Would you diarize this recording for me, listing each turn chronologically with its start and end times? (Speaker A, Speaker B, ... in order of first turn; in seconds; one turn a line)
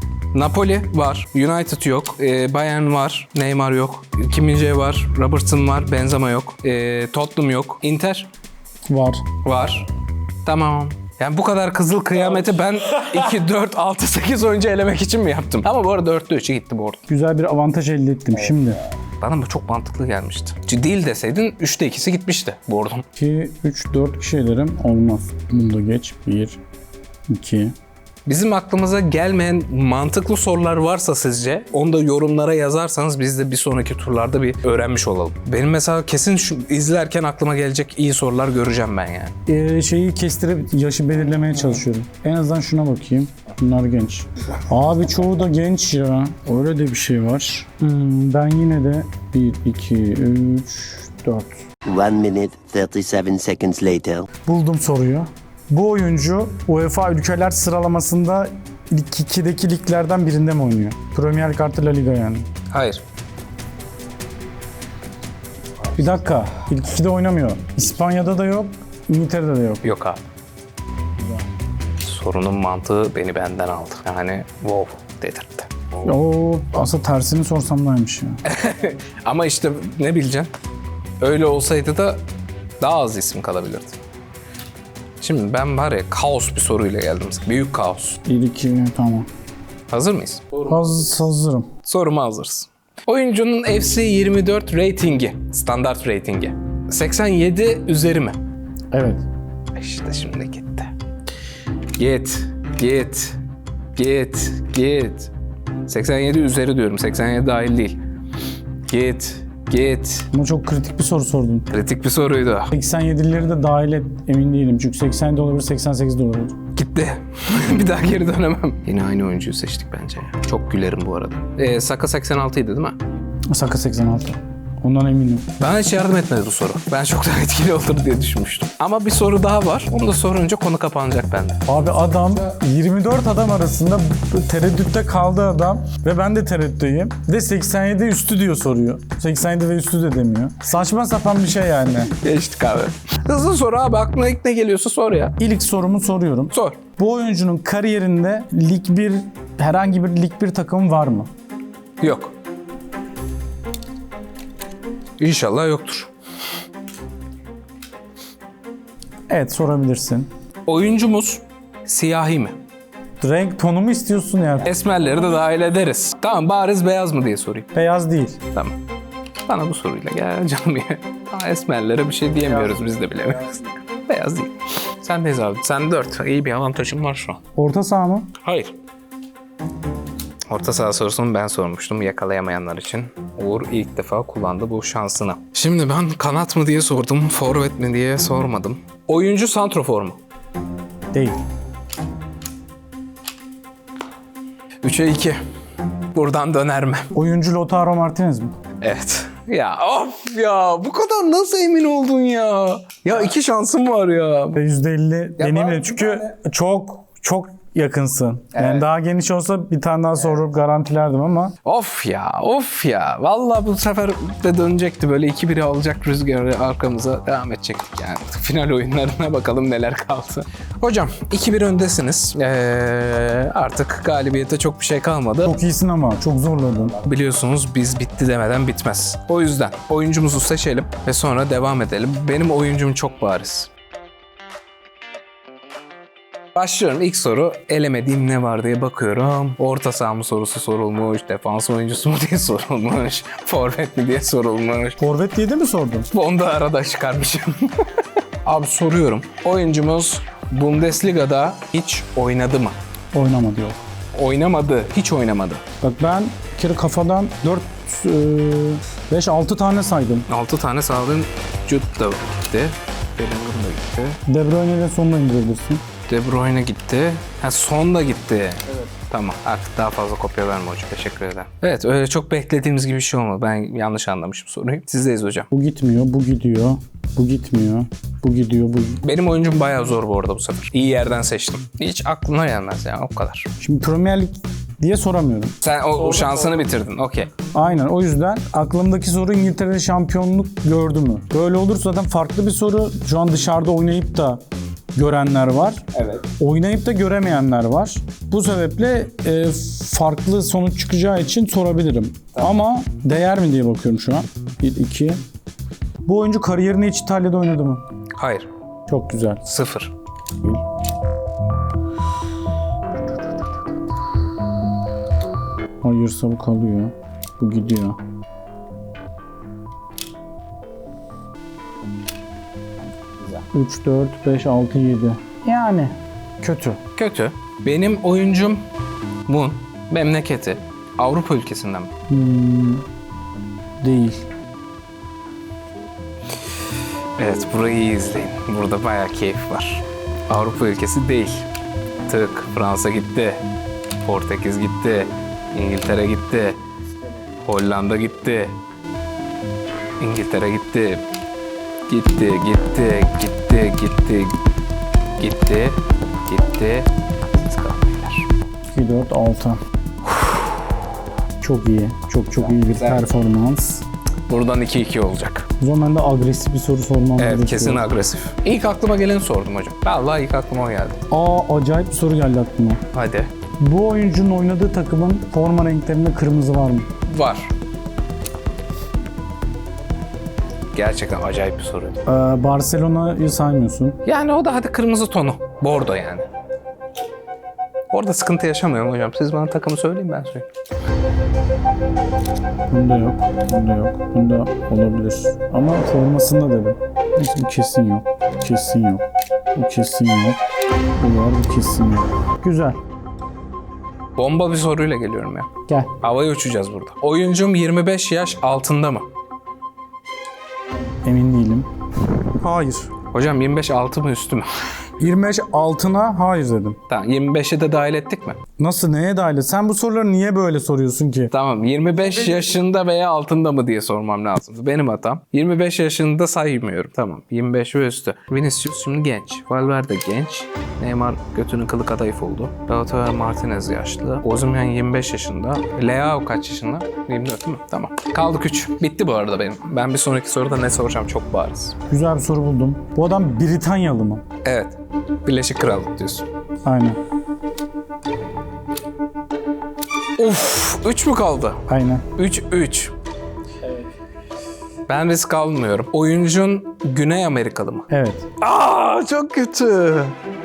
Speaker A: 0.3-8.3
Speaker B: 8.9-9.2
Speaker A: 9.4-9.9
Speaker A: 10.4-17.0
Speaker B: 17.1-18.8
Speaker A: 19.2-23.1
Speaker B: 23.2-26.6
Speaker B: 27.3-27.7
Speaker A: 28.2-39.4
Speaker B: 39.5-51.5
Speaker C: 51.9-54.3
Speaker B: 54.5-62.5
Speaker A: 62.7-63.0
Speaker B: 66.0-69.8
Speaker A: 69.8-70.2
Speaker B: 71.2-71.4
Speaker A: 72.0-75.7
Speaker B: 76.0-78.4
Speaker A: 78.4-80.5
Speaker A: 81.2-82.2
Speaker A: 82.8-84.0
Speaker A: 85.2-88.2
Speaker B: 88.2-89.3
Speaker A: 89.9-90.8
Speaker B: 90.7-91.7
Speaker A: 91.9-98.4
Speaker B: 98.9-99.2
Speaker A: 99.8-100.9
Speaker A: 102.0-103.4
Speaker A: 104.0-105.3
Speaker A: 105.9-108.0
Speaker A: 108.9-110.3
Speaker B: 110.3-111.7
Speaker A: 111.7-112.7
Speaker B: 112.7-116.6
Speaker A: 116.8-123.0
Speaker B: 123.5-125.5
Speaker A: 125.6-132.4
Speaker B: 131.7-142.1
Speaker A: 142.1-145.4
Speaker B: 145.4-151.3
Speaker A: 146.5-146.8
Speaker A: 152.0-152.3
Speaker A: 155.2-156.1
Speaker B: 159.3-160.3
Speaker A: 160.7-162.6
Speaker B: 163.2-164.7
Speaker A: 164.7-167.7
Speaker B: 167.7-168.4
Speaker A: 168.5-168.8
Speaker A: 169.5-177.4
Speaker B: 177.6-178.3
Speaker A: 178.4-178.8
Speaker A: 180.5-190.2
Speaker B: 191.1-191.4
Speaker A: 194.8-195.4
Speaker A: 196.1-197.1
Speaker B: 197.1-198.5
Speaker A: 198.8-204.6
Speaker B: 204.6-211.5
Speaker A: 205.4-206.3
Speaker A: 208.5-208.8
Speaker A: 211.6-225.5
Speaker B: 225.4-227.0
Speaker A: 227.0-233.7
Speaker A: 236.6-245.0
Speaker B: 245.0-246.1
Speaker A: 246.1-247.8
Speaker A: 248.4-252.8
Speaker B: 253.1-253.8
Speaker A: 254.1-255.6
Speaker B: 255.8-260.3
Speaker A: 260.3-264.2
Speaker B: 264.2-265.8
Speaker A: 266.1-275.5
Speaker B: 275.5-279.0
Speaker A: 279.0-283.5
Speaker B: 283.6-285.5
Speaker A: 285.6-287.3
Speaker B: 287.5-294.4
Speaker B: 294.9-295.9
Speaker A: 295.9-296.3
Speaker B: 296.4-305.2
Speaker B: 306.1-307.9
Speaker A: 308.1-308.5
Speaker B: 308.9-309.4
Speaker A: 309.4-309.9
Speaker B: 315.8-318.0
Speaker B: 323.5-326.8
Speaker A: 327.0-328.7
Speaker A: 329.3-331.9
Speaker B: 332.1-332.9
Speaker B: 333.8-334.3
Speaker A: 337.2-341.5
Speaker A: 342.1-343.5
Speaker A: 344.0-346.6
Speaker A: 347.4-348.6
Speaker A: 350.0-351.1
Speaker A: 351.9-354.4
Speaker A: 355.2-358.3
Speaker B: 358.7-359.6
Speaker A: 360.1-360.4
Speaker B: 361.4-363.9
Speaker A: 362.7-363.1
Speaker A: 364.3-365.5
Speaker B: 365.6-367.9
Speaker A: 367.2-371.0
Speaker B: 371.1-372.8
Speaker A: 372.9-373.3
Speaker B: 373.6-376.9
Speaker A: 377.1-377.5
Speaker A: 380.7-382.0
Speaker B: 382.1-384.0
Speaker A: 384.1-386.3
Speaker A: 387.9-390.5
Speaker B: 392.7-400.4
Speaker B: 401.0-402.8
Speaker A: 404.2-409.1
Speaker B: 405.7-405.9
Speaker B: 411.0-411.7
Speaker B: 412.3-412.9
Speaker A: 413.1-414.5
Speaker B: 415.0-416.8
Speaker A: 416.9-418.4
Speaker B: 418.6-421.3
Speaker A: 421.3-441.8
Speaker B: 441.9-444.2
Speaker A: 444.4-446.3
Speaker B: 446.6-447.0
Speaker A: 450.2-451.6
Speaker B: 451.7-452.1
Speaker A: 452.1-452.9
Speaker A: 454.9-457.9
Speaker B: 457.9-458.3
Speaker A: 458.4-460.1